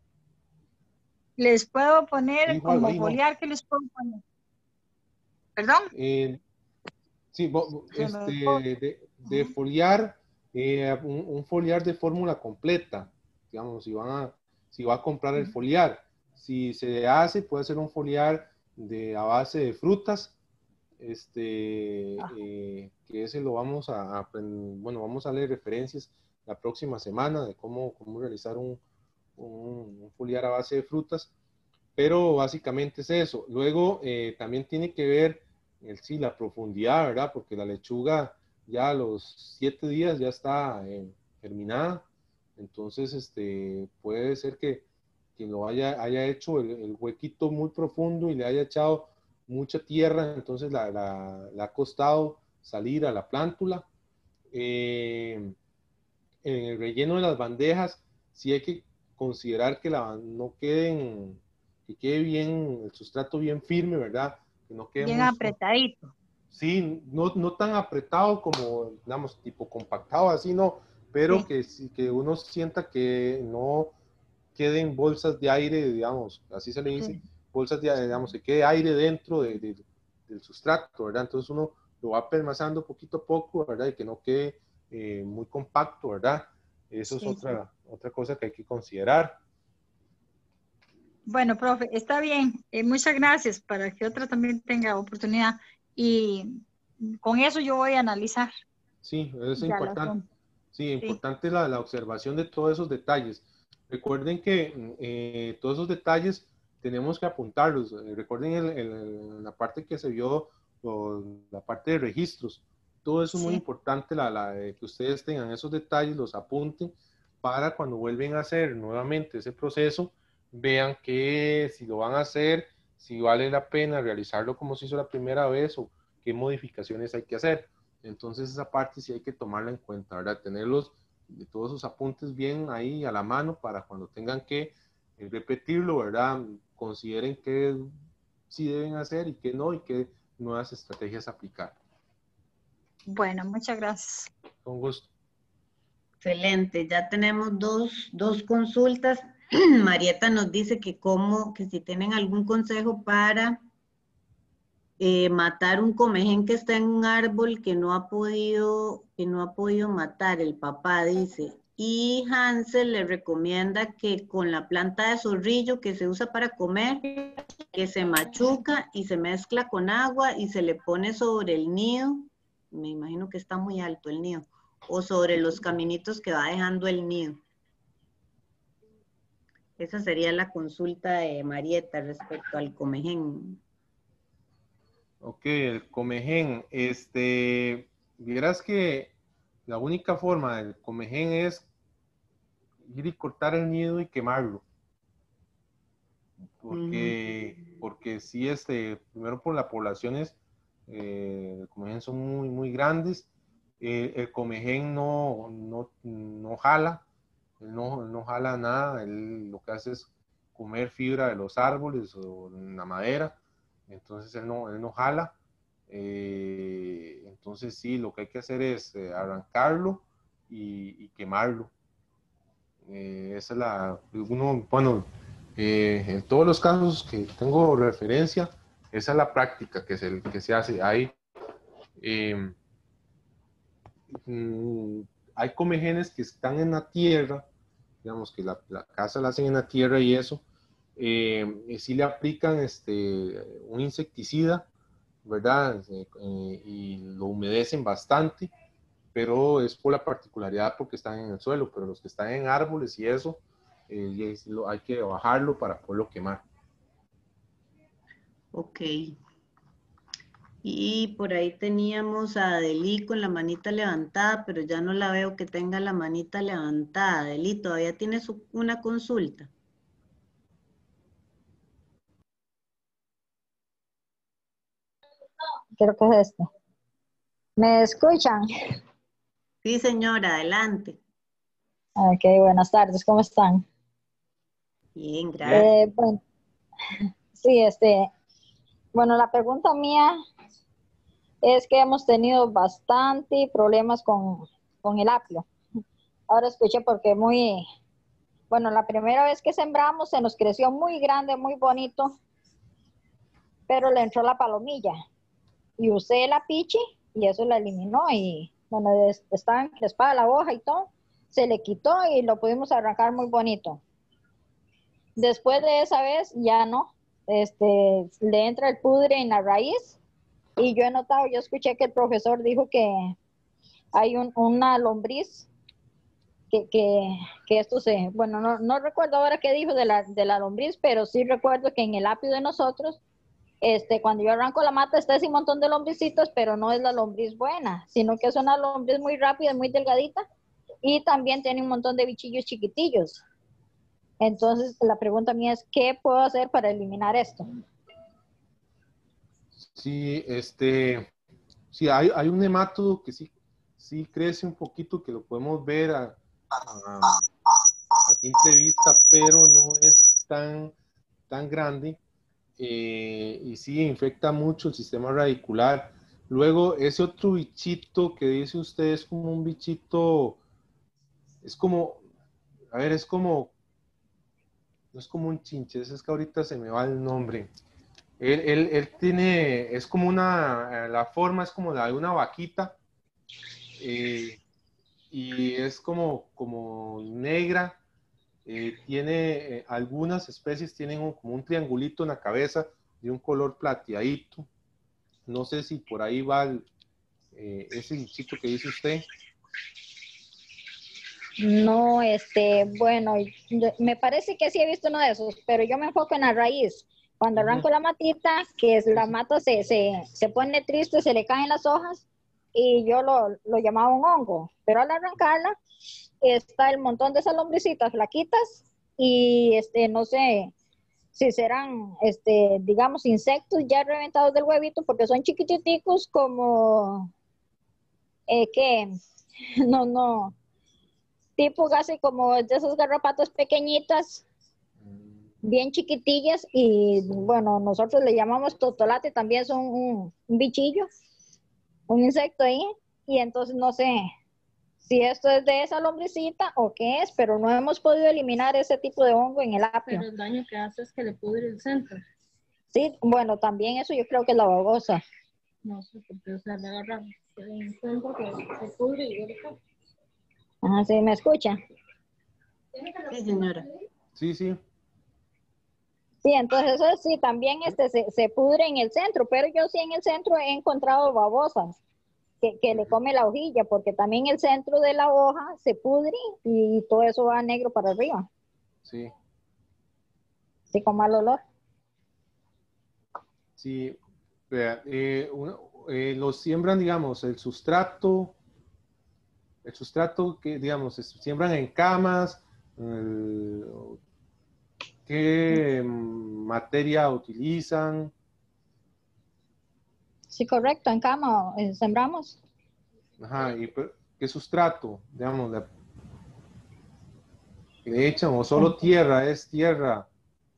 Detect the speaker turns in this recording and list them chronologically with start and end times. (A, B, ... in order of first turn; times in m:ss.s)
0:01.4-0:04.2 A
0:02.4-0:03.2 B
0:05.6-0:05.9 A
0:05.9-0:06.4 B
0:07.3-0:20.3 B
0:07.9-0:08.6 A
0:09.2-0:09.5 A
0:21.0-0:28.8 B
0:29.4-0:31.3 B
0:32.0-0:42.0 B
0:42.6-0:44.8 B
0:45.4-0:53.8 B
0:54.5-0:55.5 B
0:56.4-1:05.5 B
1:05.0-1:06.1 A
1:06.5-1:13.9 B
1:14.6-1:29.4 B
1:27.1-1:27.5 A
1:31.3-1:38.5 A
1:39.0-1:40.2 B
1:39.6-1:40.2 A
1:40.7-2:17.9 B
1:53.3-1:53.6 A
2:18.5-2:21.8 B
2:23.0-2:24.3 A
2:24.6-2:25.1 B
2:26.2-2:33.6 C
2:35.0-2:47.2 C
2:47.7-2:57.4 C
2:59.8-3:03.6 C
3:05.2-3:09.1 B
3:09.7-3:11.6 B
3:12.8-3:14.6 B
3:16.6-3:20.3 B
3:16.7-3:17.2 C
3:20.9-3:23.3 B
3:23.8-3:27.0 B
3:27.6-3:33.4 B
3:33.9-3:35.3 B
3:35.9-3:41.7 B
3:42.8-3:51.1 B
3:52.0-3:52.5 B
3:54.1-3:57.4 B
3:58.0-4:00.4 B
4:01.0-4:04.7 B
4:05.2-4:08.5 B
4:09.1-4:16.4 B
4:18.5-4:19.2 C
4:20.6-4:29.5 C
4:35.8-4:36.5 D
4:37.6-4:38.5 D
4:39.6-4:41.0 C
4:42.0-4:43.6 D
4:45.0-4:45.7 C
4:45.4-4:46.2 D
4:47.3-4:48.1 D
4:48.9-4:50.2 D
4:51.4-4:55.5 D
4:56.3-4:57.6 D
4:58.5-5:02.2 D
5:03.7-5:05.0 D
5:05.8-5:13.8 D
5:15.2-5:20.0 D
5:20.6-5:23.2 D
5:23.9-5:25.5 D
5:26.5-5:33.0 D
5:33.6-5:40.2 D
5:40.8-5:43.2 D
5:44.2-5:47.5 D
5:49.5-5:51.1 B
5:51.7-5:57.3 B
5:58.0-6:00.7 B
6:01.3-6:02.0 B
6:02.6-6:10.4 B
6:11.4-6:12.0 B
6:12.7-6:13.5 B
6:14.9-6:17.5 B
6:18.2-6:22.8 B
6:23.8-6:24.4 B
6:25.1-6:27.8 B
6:28.4-6:34.5 B
6:35.3-6:36.7 B
6:37.3-6:39.0 B
6:41.4-6:55.6 D
6:47.3-6:47.6 B
6:56.2-7:00.5 D
7:01.1-7:07.1 D
7:08.3-7:09.0 D
7:09.6-7:10.3 D
7:11.4-7:14.2 D
7:14.8-7:15.2 B
7:15.4-7:20.9 D
7:21.9-7:24.1 D
7:24.8-7:30.0 D
7:29.8-7:32.0 E
7:32.7-7:35.0 D
7:35.6-7:39.5 E
7:40.6-7:41.6 D
7:42.8-7:43.6 E
7:43.1-7:43.6 C
7:44.2-7:44.6 B
7:46.2-7:51.8 D
7:52.4-7:58.3 D
7:52.7-7:53.0 B
7:58.8-7:59.1 B
8:00.7-8:01.4 D
8:03.6-8:04.0 B
8:04.5-8:08.3 B
8:09.6-8:14.0 B
8:15.0-8:18.1 B
8:20.3-8:22.4 D
8:23.2-8:25.7 B
8:27.8-8:30.1 B